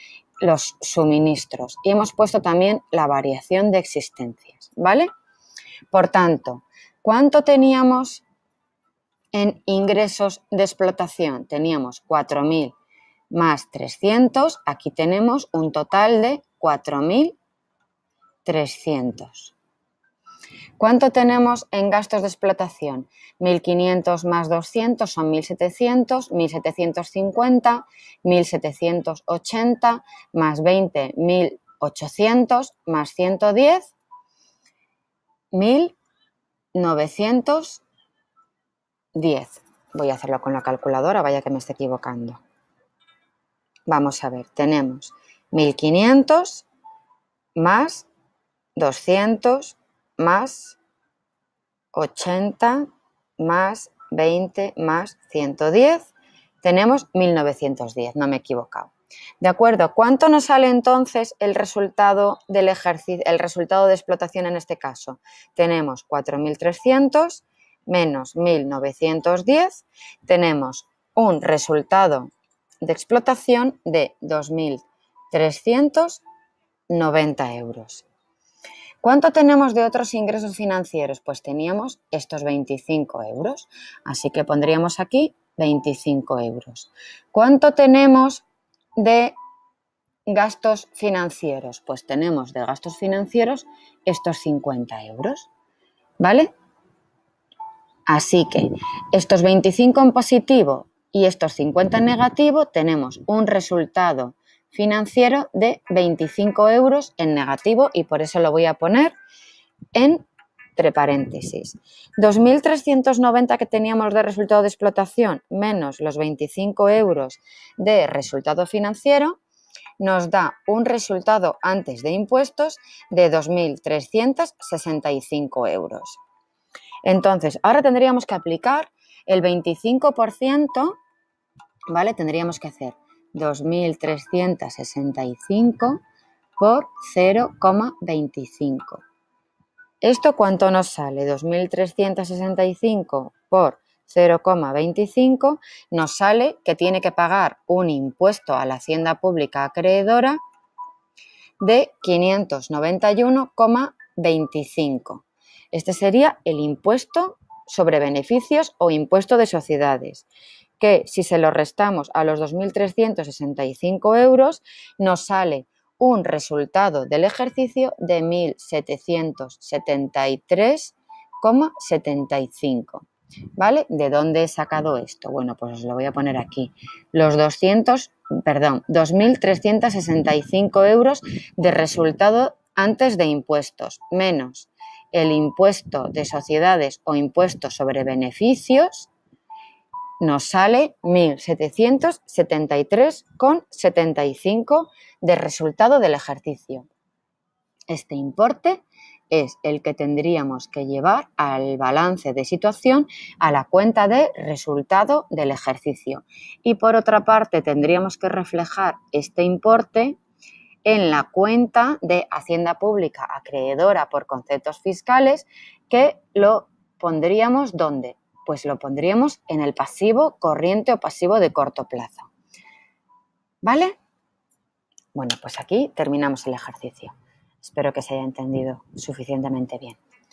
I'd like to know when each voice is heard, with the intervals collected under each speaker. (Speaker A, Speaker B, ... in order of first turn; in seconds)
Speaker A: 0.4-5.1, 5.9-8.2, 9.3-12.7, 13.3-17.3, 18.4-19.5, 20.8-33.9, 35.5-35.9, 36.7-37.8, 39.1-42.4, 43.9-46.6, 47.5-48.1, 48.8-50.8, 51.9-52.9, 53.4-56.1, 56.6-76.2, 76.9-78.0, 79.0-88.4, 89.0-89.3, 90.3-95.5, 96.2-96.5, 98.1-109.1, 109.9-110.2, 110.8-119.3, 120.0-126.2, 127.0-131.0, 131.9-136.0, 136.6-139.0, 140.0-150.4, 151.6-160.2, 160.8-173.1, 173.6-189.1, 190.2-196.9, 197.9-210.2, 210.8-222.3, 223.6-223.9, 225.1-230.0